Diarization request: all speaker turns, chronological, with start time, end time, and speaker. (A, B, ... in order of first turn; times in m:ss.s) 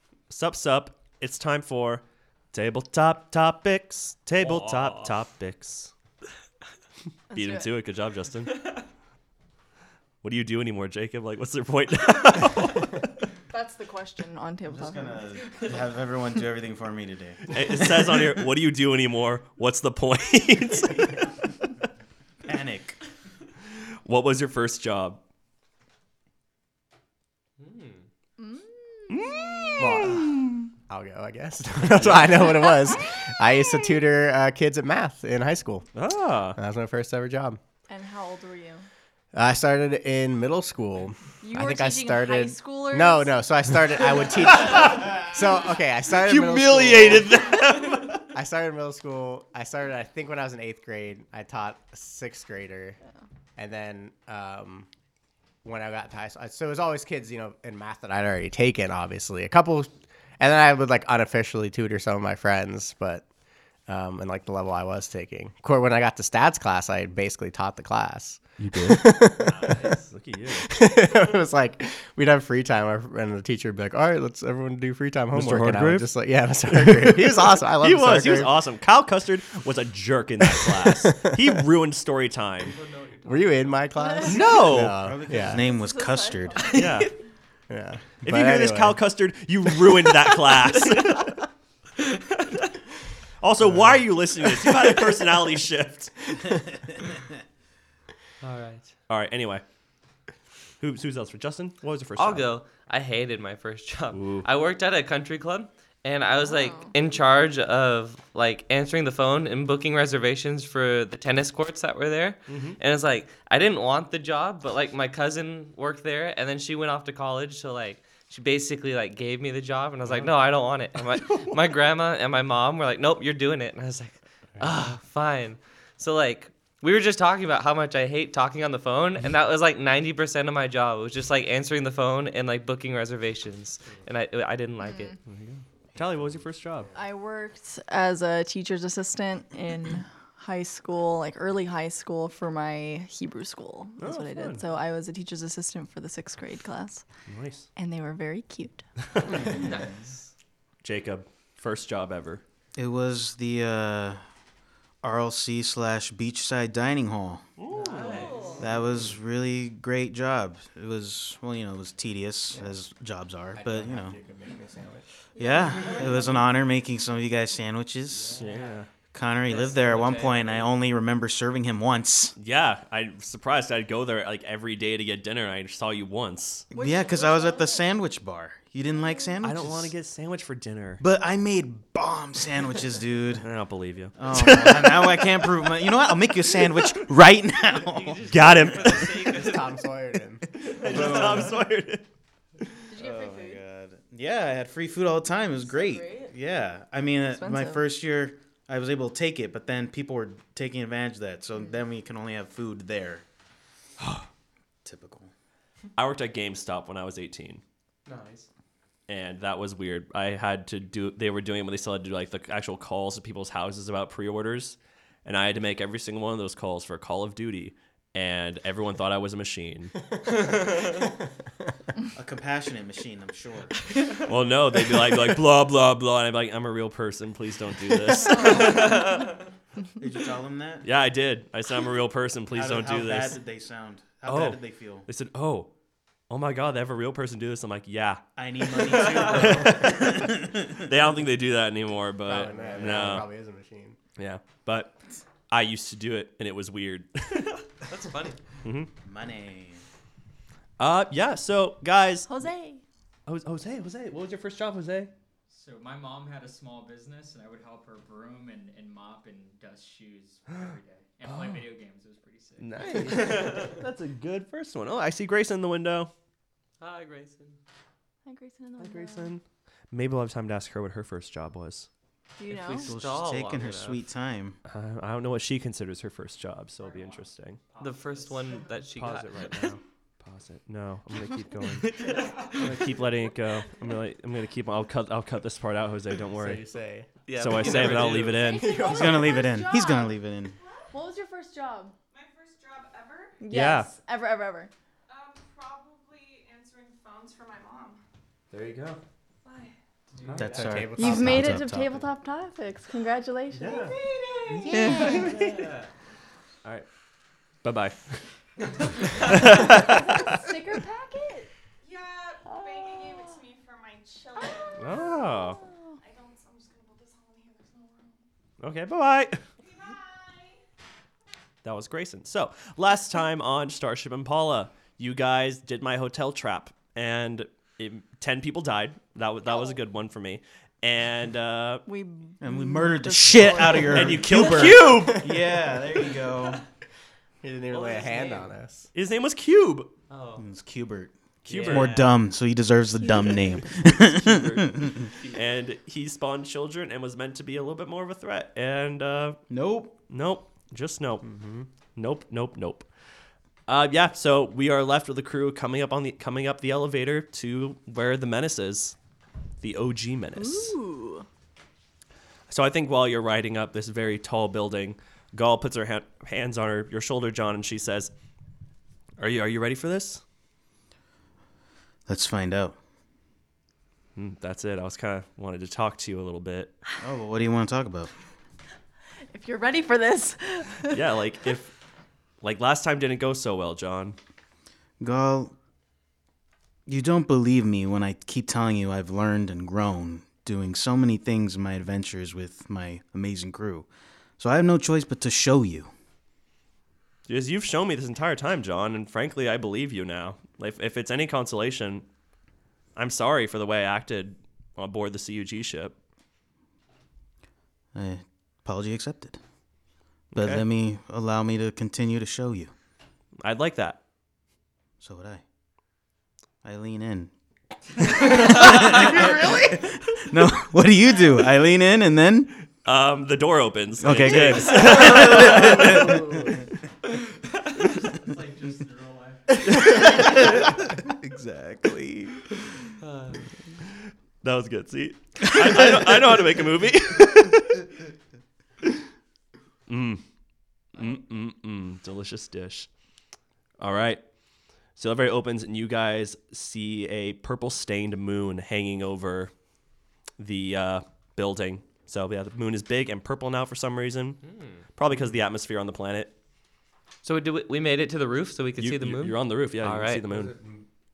0:00.3-0:05.9 A
0:04.4-0:05.2 B
0:07.3-0:07.7 C
0:07.3-0:08.7 A
0:10.2-0:13.2 A
0:13.5-0:15.3 C
0:14.7-0:17.6 D
0:17.5-0:21.3 A
0:22.4-0:23.0 D
0:24.0-0:25.2 A
0:27.6-0:28.0 B
0:28.4-0:29.8 C
0:29.1-0:30.6 A
0:29.8-0:35.9 E
0:31.9-0:32.6 A
0:32.4-0:34.0 C
0:35.9-0:36.6 A
0:36.5-0:37.6 E
0:37.9-0:38.9 C
0:39.3-0:47.6 E
0:41.4-0:43.3 C
0:44.5-0:45.2 A
0:46.1-0:48.2 A
0:48.3-0:53.0 E
0:53.6-0:54.9 E
0:55.6-1:03.2 E
1:03.9-1:10.0 E
1:08.6-1:10.7 A
1:10.6-1:18.6 E
1:15.3-1:16.1 A
1:16.7-1:22.8 A
1:20.4-1:21.5 E
1:22.6-1:23.6 B
1:23.1-1:23.4 F
1:23.2-1:25.6 E
1:24.0-1:24.4 C
1:24.2-1:25.0 A
1:25.0-1:27.0 D
1:25.5-1:26.8 C
1:26.6-1:27.1 B
1:26.7-1:27.1 A
1:27.7-1:29.0 E
1:28.2-1:31.4 A
1:30.8-1:31.1 B
1:32.0-1:32.6 B
1:33.4-1:36.3 A
1:33.6-1:33.9 E
1:36.5-1:37.2 D
1:38.4-1:38.9 B
1:39.1-1:39.6 A
1:40.8-1:42.5 A
1:42.2-2:15.2 B
1:44.1-1:44.5 A
1:46.4-1:46.9 C
1:52.5-1:52.8 A
2:15.2-2:16.9 A
2:16.9-2:27.0 C
2:24.0-2:24.6 A
2:27.3-2:27.7 A
2:27.8-2:28.8 C
2:29.1-2:29.5 A
2:29.3-2:30.3 B
2:30.8-2:32.4 A
2:32.8-2:34.2 D
2:35.0-2:37.4 D
2:37.6-2:38.3 A
2:37.7-2:38.7 B
2:38.2-2:38.6 C
2:38.6-2:44.2 D
2:43.5-2:45.0 E
2:45.4-2:46.1 C
2:45.4-2:48.4 D
2:48.4-2:48.9 A
2:49.1-2:52.4 D
2:49.4-2:50.7 B
2:52.4-2:56.7 A
2:56.7-2:57.8 C
2:56.7-2:59.9 D
2:59.4-3:01.0 A
3:01.0-3:03.5 D
3:03.4-3:06.9 A
3:04.2-3:08.9 D
3:07.7-3:09.7 B
3:08.3-3:09.4 A
3:09.2-3:10.4 E
3:10.5-3:12.0 A
3:10.8-3:11.6 D
3:11.0-3:11.5 B
3:12.9-3:13.6 C
3:13.0-3:23.2 D
3:15.6-3:16.3 C
3:17.2-3:17.8 C
3:24.0-3:24.3 A
3:24.8-3:25.3 D
3:26.0-3:27.6 A
3:28.0-3:28.5 B
3:29.1-3:40.0 A
3:40.3-3:40.9 B
3:42.1-3:43.8 D
3:44.2-3:49.1 A
3:48.3-3:48.8 C
3:48.7-3:49.3 B
3:50.0-3:50.9 D
3:50.8-3:53.4 A
3:52.5-3:55.0 D
3:54.2-3:55.7 A
3:56.3-4:03.3 A
3:58.4-4:00.9 D
3:59.1-3:59.5 B
4:02.2-4:04.0 E
4:02.7-4:03.2 D
4:04.2-4:05.0 A
4:05.5-4:07.6 A
4:07.8-4:08.4 B
4:08.6-4:08.9 A
4:09.0-4:09.8 D
4:10.8-4:12.3 A
4:12.3-4:12.8 C
4:13.3-4:15.1 A
4:15.5-4:23.8 F
4:21.3-4:21.6 A
4:22.6-4:26.1 A
4:23.1-4:23.7 B
4:26.8-4:27.6 B
4:28.2-4:29.3 C
4:28.8-4:31.9 A
4:32.4-4:32.9 C
4:32.5-4:34.0 B
4:32.7-4:34.6 D
4:34.6-4:37.6 A
4:36.8-4:39.1 F
4:37.8-4:39.7 B
4:39.0-4:42.0 A
4:41.8-4:42.7 B
4:42.0-4:42.9 F
4:42.5-4:46.6 A
4:46.4-4:47.9 E
4:47.2-4:48.5 B
4:47.4-4:48.8 A
4:48.4-4:51.0 G
4:48.4-4:49.9 C
4:48.6-4:49.3 E
4:48.7-4:50.6 D
4:50.9-4:51.9 C
4:52.1-4:53.4 G
4:53.4-4:54.7 C
4:53.5-4:53.9 A
4:55.1-4:58.0 G
4:58.5-4:59.0 A
4:59.4-4:59.7 G
5:00.1-5:00.5 F
5:00.3-5:00.8 B
5:00.4-5:01.7 E
5:00.4-5:02.0 D
5:00.9-5:03.9 C
5:03.5-5:04.0 A
5:03.7-5:04.9 G
5:04.6-5:05.3 C
5:04.7-5:05.7 A
5:04.7-5:05.9 B
5:07.6-5:08.3 A
5:09.1-5:10.3 A
5:09.9-5:11.5 C
5:11.8-5:18.2 G
5:12.5-5:13.4 C
5:14.4-5:15.9 C
5:14.8-5:15.6 A
5:18.6-5:19.4 A
5:19.6-5:20.6 G
5:21.6-5:31.8 A
5:31.9-5:34.2 C
5:32.4-5:36.6 D
5:33.9-5:35.4 A
5:37.4-5:38.9 E
5:37.7-5:38.5 B
5:38.9-5:39.9 A
5:40.1-5:40.4 B
5:40.4-5:45.1 D
5:41.4-5:42.0 A
5:41.5-5:42.1 B
5:43.8-5:49.4 A
5:49.5-5:49.9 D
5:50.1-5:51.3 A
5:51.2-5:51.7 E
5:52.0-5:52.9 A
5:53.7-5:59.0 A
5:59.6-6:00.7 A
6:00.4-6:01.2 C
6:02.5-6:08.1 A
6:09.2-6:10.2 A
6:12.1-6:12.8 D
6:14.2-6:16.8 A
6:17.0-6:18.1 D
6:19.3-6:21.0 C
6:20.9-6:21.8 A
6:22.4-6:24.2 A
6:25.0-6:25.5 D
6:26.9-6:33.9 D
6:34.4-6:35.9 D
6:37.3-6:42.0 A
6:43.0-6:46.0 A
6:47.9-6:49.4 D
6:50.3-6:52.7 D
6:53.4-6:54.0 A
6:55.0-6:55.4 D
6:56.6-6:57.3 D
6:58.0-7:02.6 D
7:02.8-7:06.2 A
7:04.0-7:06.7 D
7:07.7-7:10.8 F
7:09.7-7:10.4 A
7:09.8-7:12.5 D
7:13.0-7:13.4 B
7:13.8-7:17.9 A
7:15.5-7:16.4 D
7:19.9-7:20.2 A
7:20.9-7:22.9 A
7:23.8-7:24.2 A
7:25.0-7:29.5 A
7:30.4-7:34.4 A
7:34.4-7:34.8 B
7:34.9-7:36.3 A
7:37.2-7:40.3 B
7:38.8-7:40.5 A
7:40.3-7:40.8 E